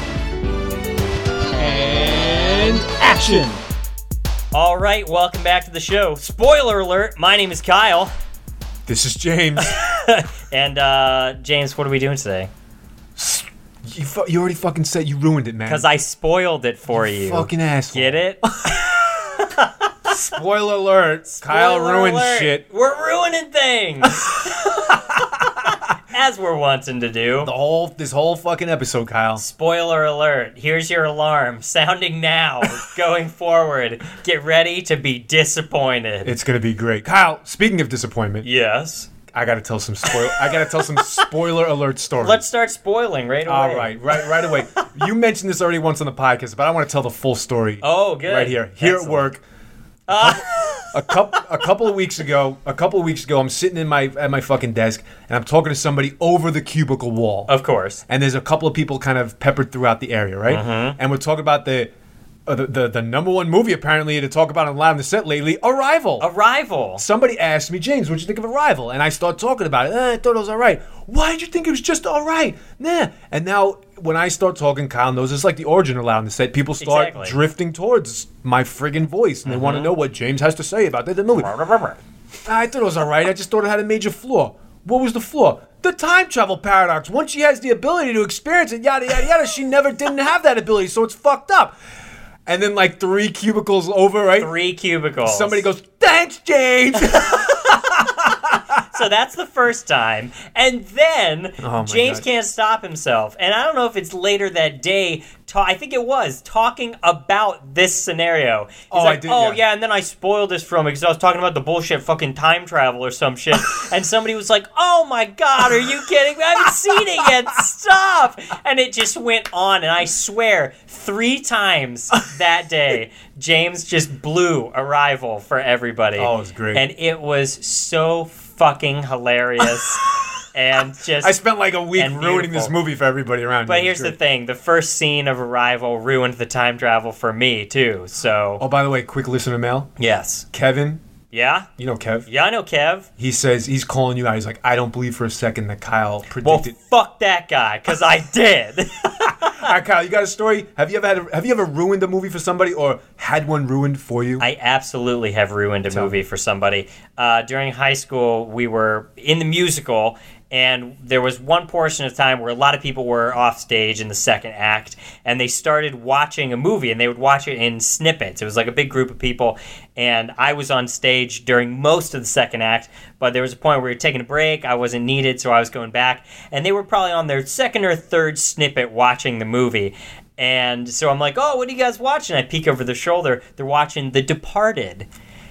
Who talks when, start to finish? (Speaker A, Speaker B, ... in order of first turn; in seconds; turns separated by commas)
Speaker A: 1.5-3.5, Speaker B: 3.0-3.6, Speaker B: 4.5-8.1, Speaker A: 8.9-9.8, Speaker B: 9.6-12.5, Speaker A: 13.2-15.9, Speaker B: 15.7-19.9, Speaker A: 16.9-19.2, Speaker A: 20.1-22.6, Speaker B: 21.3-27.5, Speaker A: 24.2-25.7, Speaker A: 27.4-29.4, Speaker B: 29.4-36.3, Speaker A: 36.2-38.5, Speaker B: 38.4-39.1, Speaker A: 39.3-42.4, Speaker B: 40.0-41.3, Speaker B: 42.2-44.9, Speaker A: 43.5-49.4, Speaker B: 47.8-49.2, Speaker B: 50.1-51.4, Speaker A: 50.1-57.5, Speaker B: 57.5-58.0, Speaker A: 58.1-61.9, Speaker B: 60.5-61.0, Speaker A: 62.5-66.3, Speaker B: 66.2-67.0, Speaker A: 67.0-81.5, Speaker B: 76.8-77.4, Speaker B: 79.4-79.9, Speaker B: 81.3-82.0, Speaker A: 82.5-91.8, Speaker A: 92.5-94.5, Speaker B: 94.4-95.6, Speaker A: 95.2-98.8, Speaker B: 98.7-131.3, Speaker A: 101.6-102.2, Speaker A: 108.9-109.6, Speaker A: 116.9-117.3, Speaker A: 126.2-126.8, Speaker A: 131.2-134.2, Speaker B: 131.9-132.7, Speaker B: 133.7-138.6, Speaker A: 138.6-139.9, Speaker B: 140.0-140.4, Speaker A: 140.5-141.0, Speaker B: 141.3-141.7, Speaker A: 141.8-142.3, Speaker B: 142.2-143.1, Speaker A: 143.2-146.8, Speaker B: 146.4-149.7, Speaker A: 149.2-154.4, Speaker B: 154.4-185.1, Speaker A: 155.9-156.2